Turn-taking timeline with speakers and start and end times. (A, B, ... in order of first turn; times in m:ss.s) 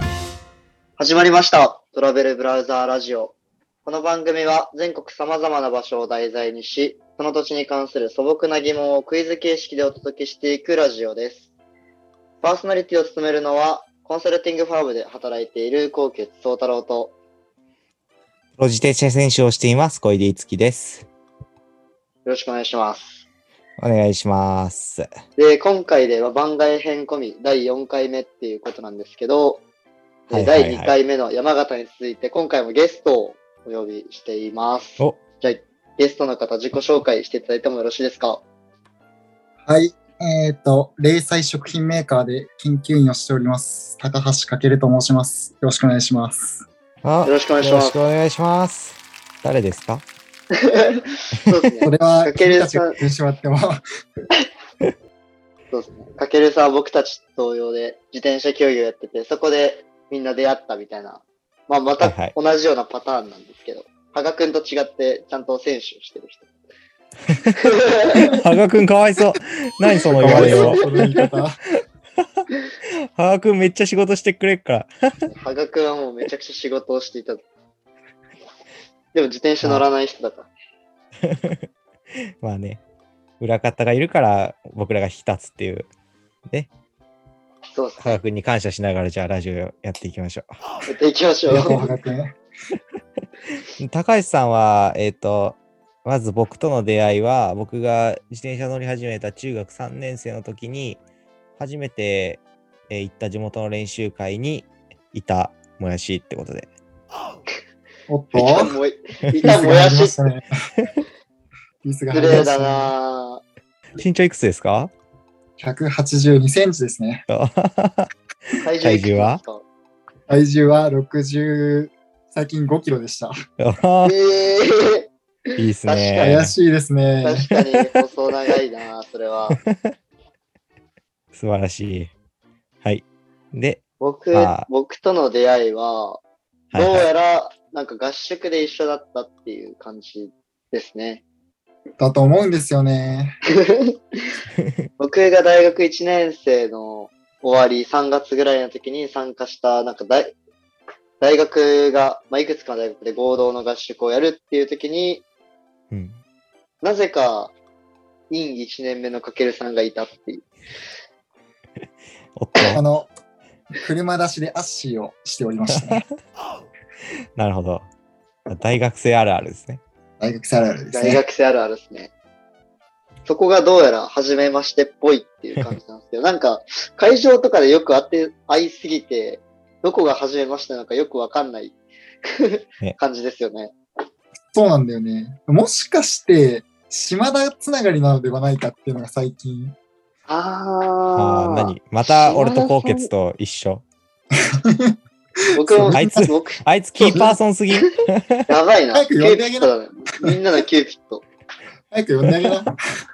0:01.0-0:03.3 A
0:03.8-0:11.4 A
0:12.4-0:17.1 A
0:18.6-0:21.0 B
0:22.2-0:23.2 A
0:23.8-0:25.1 B
0:25.4-0:29.6 A
0:30.3-0:38.4 A
0:30.3-0:30.9 B
0:39.6-0:46.6 C
0:47.0-0:50.0 B
0:47.2-0:48.0 A
0:50.5-0:53.0 A
0:51.8-0:53.8 C
0:55.7-1:06.5 A
1:02.0-1:02.3 B
1:07.3-1:11.0 B
1:07.5-1:08.4 A
1:10.2-1:11.1 A
1:10.2-1:11.6 C
1:13.2-1:14.9 B
1:15.3-1:17.4 A
1:19.1-1:20.5 A
1:19.6-1:19.9 B
1:21.2-1:21.6 B
1:22.4-1:22.8 B
1:23.4-1:25.9 B
1:27.7-1:28.2 A
1:28.0-1:30.6 B
1:30.8-1:31.9 A
1:31.5-1:32.3 C
1:33.8-1:41.0 B
1:41.6-1:46.7 B
1:48.1-1:48.7 C
1:48.3-1:50.2 A
1:49.4-1:50.6 C
1:51.8-1:52.9 C
1:52.1-1:53.4 A
1:54.0-1:54.9 B
1:55.6-1:57.2 C
1:57.3-1:59.4 B
1:58.6-1:59.6 A
2:00.3-2:03.3 C
2:03.6-2:04.1 B
2:04.0-2:05.1 A
2:05.6-2:06.5 B
2:05.8-2:06.4 A
2:06.2-2:07.5 C
2:07.2-2:09.6 A
2:09.5-2:09.9 B
2:11.3-2:12.1 B
2:12.8-2:14.7 B
2:14.0-2:16.2 A
2:16.7-2:17.1 B
2:16.8-2:21.2 A
2:22.0-2:23.4 C
2:23.5-2:24.4 A
2:25.0-2:30.3 A
2:31.2-2:35.2 A
2:35.9-2:36.2 B
2:36.8-2:37.5 A
2:38.3-2:40.4 A
2:42.4-2:42.8 B
2:42.7-2:43.1 C
2:43.8-2:46.0 C
2:45.8-2:46.0 B
2:47.4-2:47.8 B
2:48.5-2:49.8 B
2:50.2-2:51.2 C
2:50.9-2:52.1 A
2:53.2-3:03.7 A
3:04.5-3:09.7 C
3:10.3-3:13.1 A
3:11.2-3:13.8 B
3:14.3-3:15.0 C
3:15.5-3:16.6 A
3:15.6-3:16.1 C
3:15.9-3:18.4 B
3:17.0-3:17.3 C
3:18.5-3:21.2 A
3:18.9-3:19.7 C
3:21.9-3:22.8 C